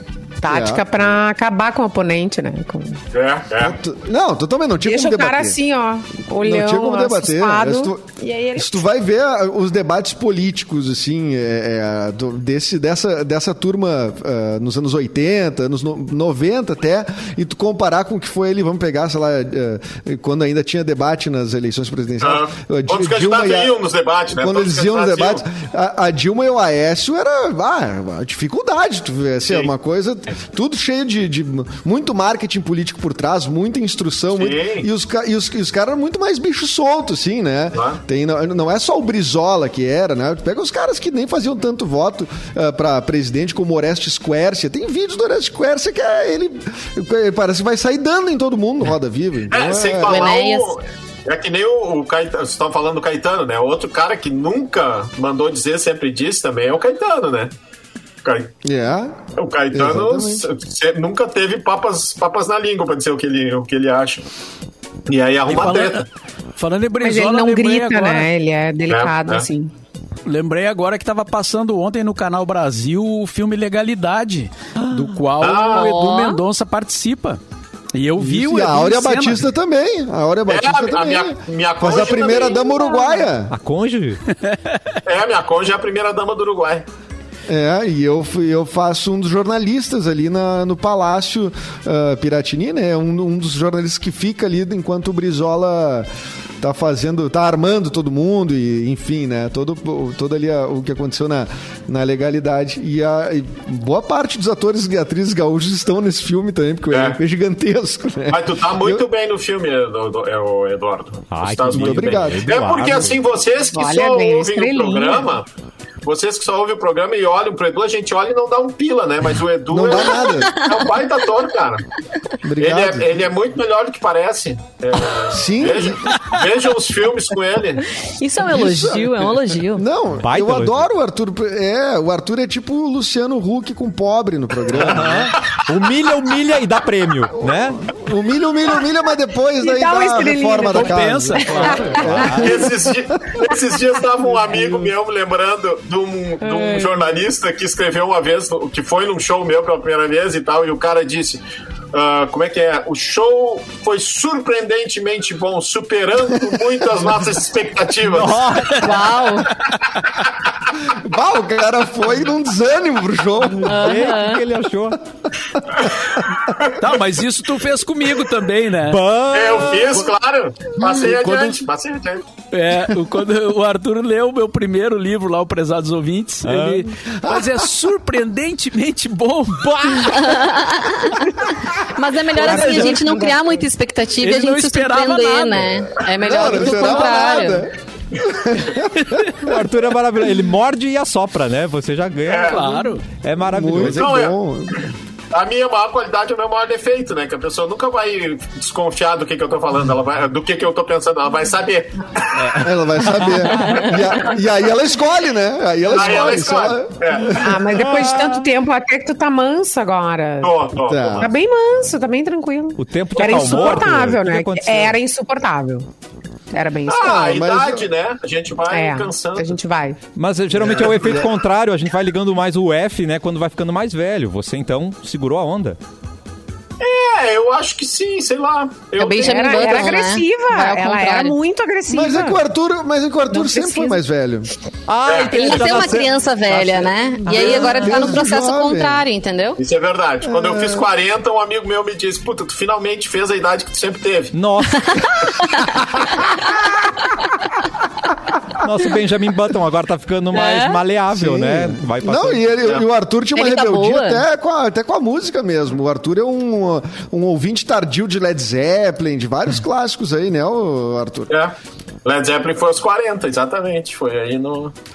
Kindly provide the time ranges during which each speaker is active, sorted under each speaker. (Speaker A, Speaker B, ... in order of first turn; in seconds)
Speaker A: 0.4-3.0, 4.8-8.8, 67.0-69.7, 82.5-83.3, 113.7-115.3, 139.6-142.3, 146.4-146.9, 207.3-210.6, 211.2-215.9, 216.5-217.2, 218.7-220.0, 229.0-232.4, 233.3-234.0
Speaker B: 0.5-0.8, 3.5-5.6, 6.4-23.8, 24.4-50.3, 58.6-59.2, 59.7-60.5, 78.2-83.5, 87.5-96.1, 96.6-109.0, 111.7-112.5, 119.7-120.6, 122.4-123.3, 125.3-126.1, 128.5-135.3, 137.3-142.7, 160.8-164.0, 177.1-177.6, 182.5-183.4, 186.2-189.6, 193.5-194.9, 202.6-207.6, 210.8-211.3, 217.0-217.9, 220.5-221.2, 231.9-234.5, 237.1-239.0, 240.2-240.9, 251.1-261.3
Speaker C: 3.1-3.8, 22.2-25.4, 34.3-34.9, 37.7-38.0, 49.5-57.5, 58.2-58.5, 59.4-64.2, 65.1-66.1, 68.9-69.5, 75.4-76.0, 80.5-82.7, 85.0-86.9, 106.9-107.2, 108.3-115.5, 116.0-121.8, 122.6-127.9, 134.7-135.7, 142.3-158.5, 165.8-166.8, 169.3-172.2, 192.2-192.7, 193.8-194.3, 195.3-202.6, 205.9-207.4, 210.4-211.3, 216.9-219.5, 220.6-221.2, 226.8-230.0, 235.0-235.6, 237.3-237.7, 239.6-244.4, 261.3-264.7
Speaker D: 50.0-50.8, 75.7-76.4, 120.5-120.9, 128.1-129.8, 158.8-159.5, 163.6-164.4, 180.1-187.7, 229.0-231.4, 235.3-239.6, 244.8-245.8, 250.3-250.8, 253.3-254.2
Speaker E: 65.5-68.3, 70.2-77.4, 77.9-79.4, 84.5-84.8, 140.7-141.9, 166.8-169.0, 170.8-171.6, 172.5-180.2, 182.4-183.0, 184.2-186.0, 192.5-193.0
Speaker F: 74.8-75.1, 83.5-84.2, 111.3-113.2, 130.2-130.8, 134.8-137.8, 141.4-142.7, 158.0-159.4, 163.5-165.0, 168.9-170.0, 176.4-176.9, 179.6-180.5, 182.4-183.1, 189.4-194.1, 202.4-204.1, 207.8-208.4, 212.8-215.0, 220.2-225.8, 234.9-236.9, 244.3-245.7, 248.5-252.6